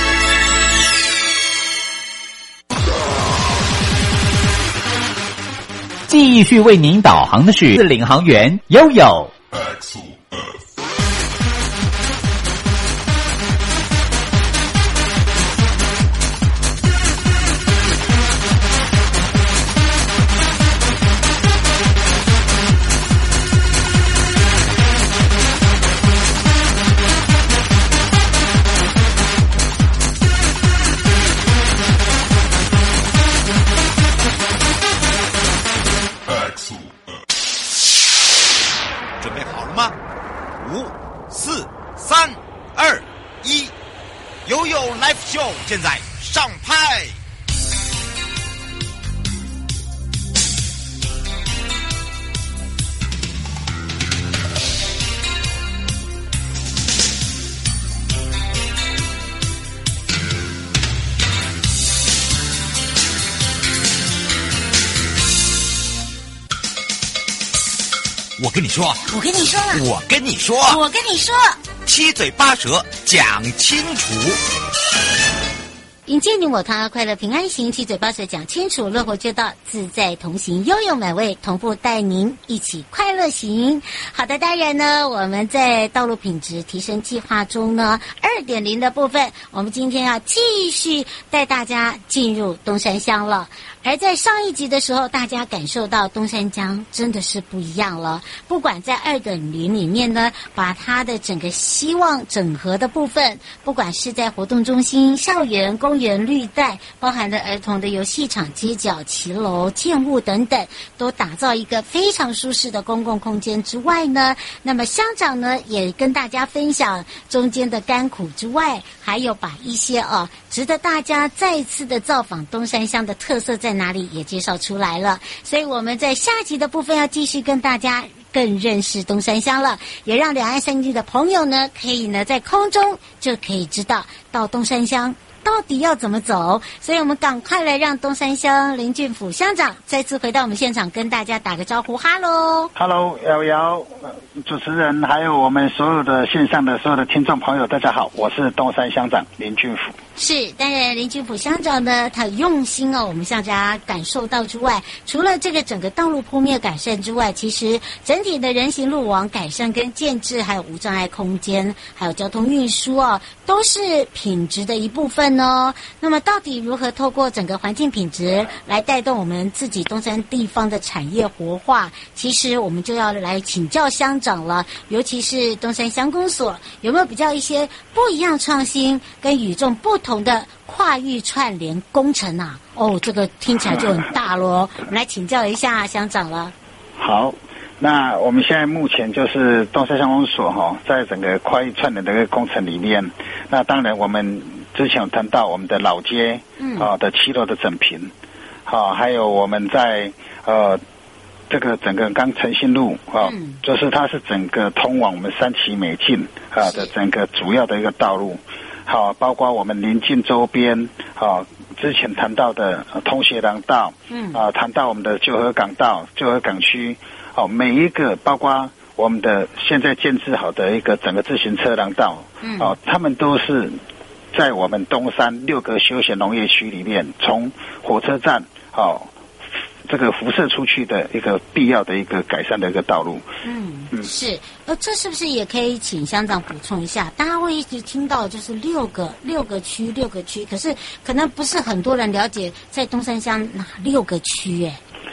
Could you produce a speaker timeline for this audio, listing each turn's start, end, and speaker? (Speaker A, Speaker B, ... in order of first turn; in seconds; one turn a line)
Speaker A: 6.1-9.3
Speaker B: 39.2-40.0
Speaker B: 40.6-43.7
Speaker B: 44.5-47.2
Speaker B: 68.4-69.1
Speaker C: 69.1-69.8
Speaker B: 69.7-70.8
Speaker C: 70.6-71.6
Speaker B: 71.8-74.4
Speaker C: 76.1-142.7
Speaker D: 142.8-149.9
Speaker C: 150.2-186.5
Speaker D: 187.0-198.1
Speaker C: 196.6-196.9
Speaker D: 198.7-200.8
Speaker D: 201.5-223.8
Speaker C: 203.2-203.6
Speaker C: 206.6-206.9
Speaker C: 214.1-214.4
Speaker C: 222.4-222.8
Speaker D: 224.3-229.1
Speaker D: 229.9-233.2
Speaker C: 233.4-244.8